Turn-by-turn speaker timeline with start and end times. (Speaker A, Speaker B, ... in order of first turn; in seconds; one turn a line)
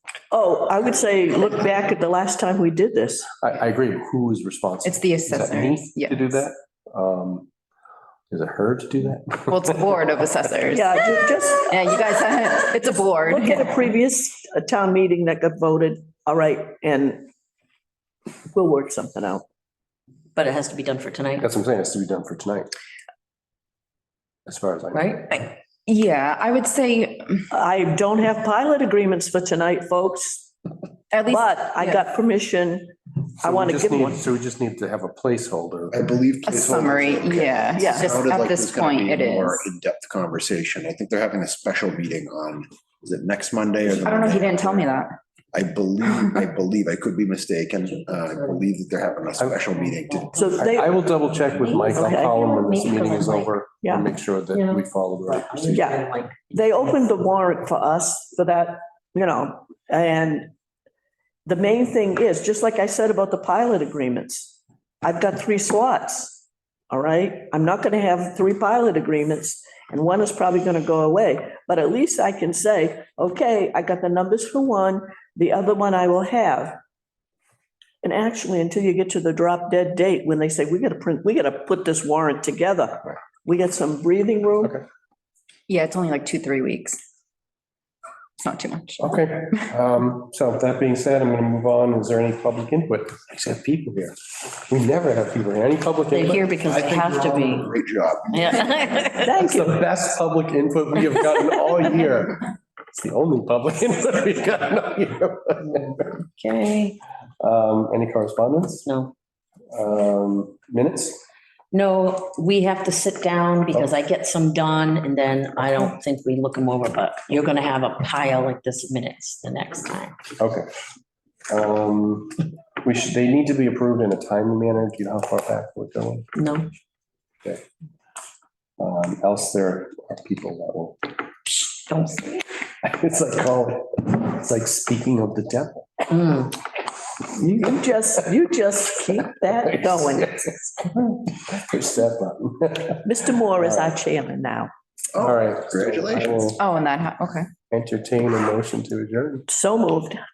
Speaker A: 0.3-3.3
Speaker B: 3.4-7.5
Speaker C: 4.8-6.4
Speaker B: 8.3-9.8
Speaker C: 9.5-11.0
Speaker A: 10.7-11.8
Speaker C: 11.7-13.8
Speaker A: 13.2-17.3
Speaker A: 18.5-19.4
Speaker D: 20.4-21.5
Speaker B: 21.4-22.7
Speaker B: 24.5-25.1
Speaker D: 24.9-25.4
Speaker C: 25.3-27.5
Speaker A: 27.5-30.5
Speaker C: 31.1-32.1
Speaker A: 31.2-34.3
Speaker B: 33.4-36.0
Speaker E: 35.9-44.9
Speaker C: 36.5-39.6
Speaker A: 37.8-38.1
Speaker C: 43.9-45.2
Speaker E: 45.5-50.4
Speaker D: 47.9-48.6
Speaker D: 49.6-53.6
Speaker A: 50.3-51.0
Speaker B: 50.6-55.9
Speaker A: 51.7-52.4
Speaker D: 54.5-57.0
Speaker A: 55.7-56.0
Speaker A: 56.5-60.5
Speaker A: 61.5-76.8
Speaker A: 78.0-84.7
Speaker C: 85.7-87.0
Speaker C: 88.4-89.7
Speaker B: 89.0-96.6
Speaker D: 96.1-97.7
Speaker E: 96.7-98.6
Speaker D: 98.3-99.3
Speaker A: 99.2-99.8
Speaker B: 99.4-106.1
Speaker D: 105.7-107.0
Speaker B: 107.4-108.9
Speaker D: 108.9-109.1
Speaker B: 109.7-111.2
Speaker D: 111.7-120.2
Speaker B: 120.4-120.7
Speaker B: 121.5-126.3
Speaker D: 126.3-126.7
Speaker B: 128.8-132.2
Speaker D: 131.9-132.4
Speaker B: 132.8-136.5
Speaker D: 136.1-136.6
Speaker A: 137.4-140.4
Speaker B: 139.3-143.9
Speaker A: 143.1-144.7
Speaker E: 145.1-146.6
Speaker B: 145.2-146.6
Speaker C: 146.6-147.5
Speaker B: 147.7-149.5
Speaker A: 149.5-150.2